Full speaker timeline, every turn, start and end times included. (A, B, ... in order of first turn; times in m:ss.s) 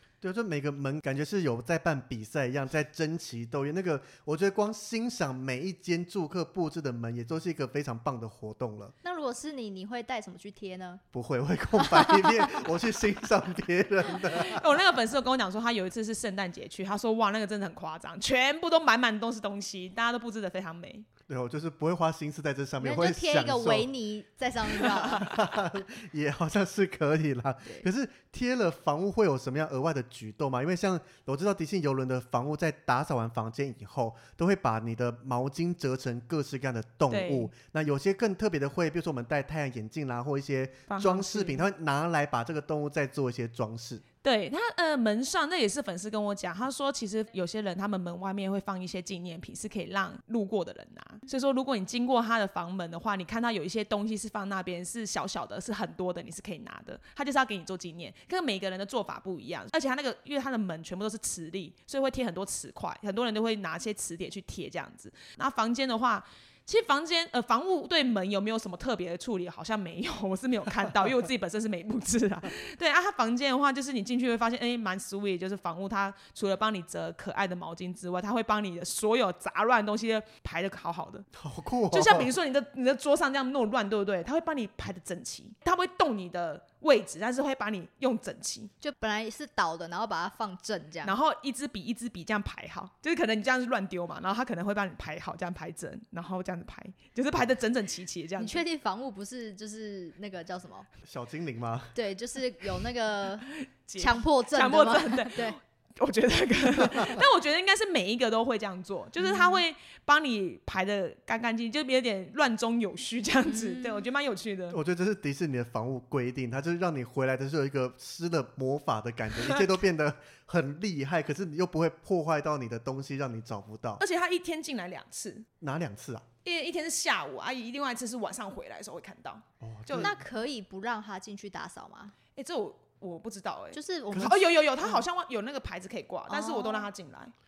0:00.2-0:08.9 A
0:09.0-0:11.0 B
0:11.1-0:14.7 A
0:11.8-0:12.6 B
0:14.3-0:21.1 C
0:21.3-0:23.9 A
0:22.8-0:25.3 B
0:24.8-0:25.2 C
0:25.1-0:44.0 A
0:37.1-0:37.5 C
0:40.9-0:41.7 C
0:44.2-1:21.3 C
1:21.4-1:22.3 A
1:21.9-1:28.7 C
1:28.8-1:31.2 B
1:31.0-1:38.6 C
1:38.4-1:40.9 B
1:41.0-1:42.0 A
1:42.0-1:45.6 B
1:43.9-1:54.8 C
1:49.2-1:49.6 B
1:53.5-1:54.1 B
1:54.7-2:04.0 A
2:04.0-2:05.5 C
2:05.6-2:06.3 A
2:06.4-2:10.2 C
2:09.6-2:10.2 A
2:10.0-2:12.1 B
2:12.4-2:17.3 C
2:13.7-2:15.0 B
2:14.1-2:14.4 A
2:16.3-2:16.9 B